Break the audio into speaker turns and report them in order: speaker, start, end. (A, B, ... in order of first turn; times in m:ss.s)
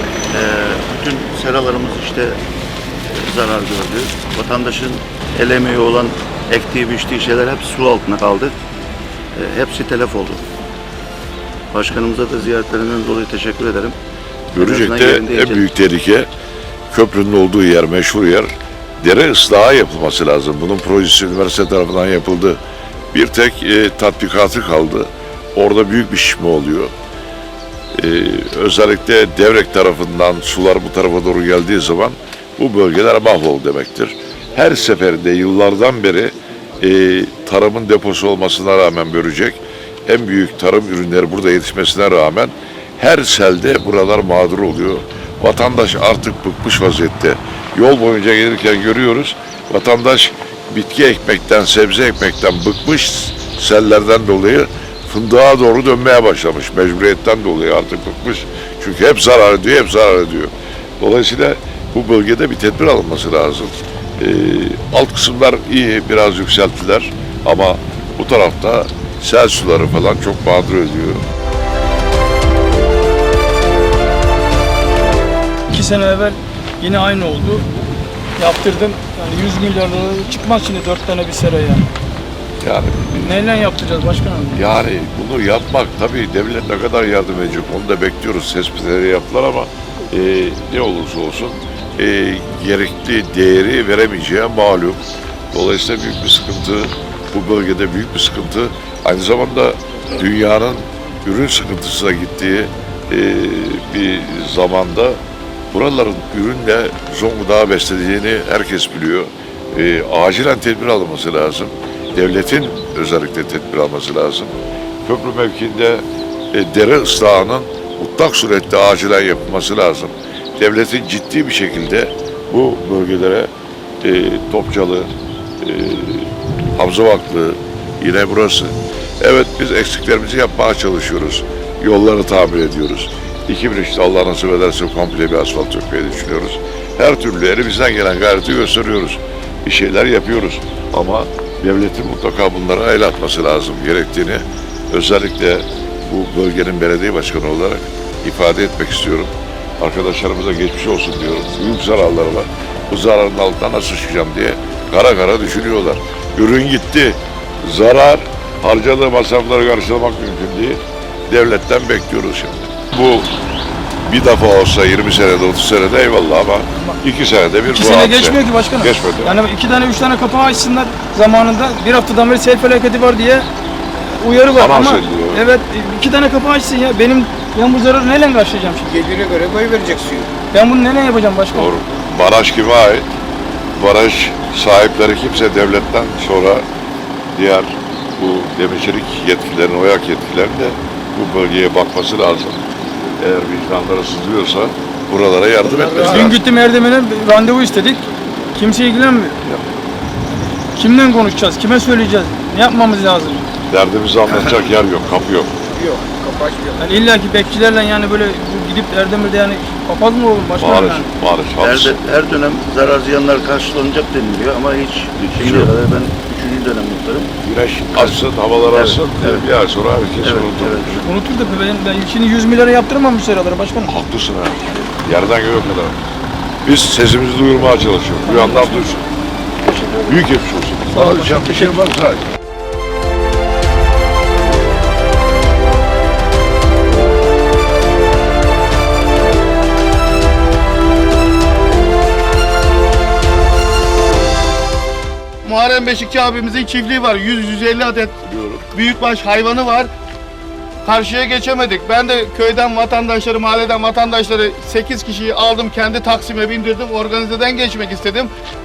0:00.3-0:02.4 A
0:03.1-0:08.5 A
0:09.3-0:10.4 A
0:11.7-0:13.9 A
0:14.5-0:16.3 B
0:14.6-0:15.7 A
0:16.9-0:22.6 B
0:23.1-0:26.9 B
0:27.9-1:11.2 B
1:15.7-1:17.7 C
1:18.4-1:21.9 C
1:22.6-1:23.4 B
1:23.2-1:24.7 C
1:24.5-1:45.2 B
1:45.7-2:03.5 B
2:04.0-2:43.3 B
2:44.0-2:49.4 B
2:47.7-2:59.1 C
2:54.5-2:55.4 B
2:58.9-3:00.3 D
3:00.5-3:01.7 C
3:01.5-3:03.1 B
3:03.7-3:06.6 B
3:07.3-3:12.6 B
3:13.2-3:16.4 B
3:16.0-3:19.4 C
3:20.7-3:23.4 C
3:23.7-3:25.5 B
3:25.7-3:26.7 D
3:26.7-3:31.1 C
3:30.6-3:32.0 B
3:31.6-3:37.3 A
3:35.3-3:35.7 B
3:37.4-3:41.0 B
3:37.9-3:39.5 A
3:40.2-3:41.0 A
3:41.0-3:44.0 C
3:43.8-3:46.0 B
3:46.6-3:49.0 B
3:48.2-3:49.0 C
3:49.9-3:52.2 B
3:50.9-3:51.8 C
4:05.4-4:08.1 E
4:08.2-4:08.6 B
4:08.7-4:09.9 E
4:10.8-4:18.3 E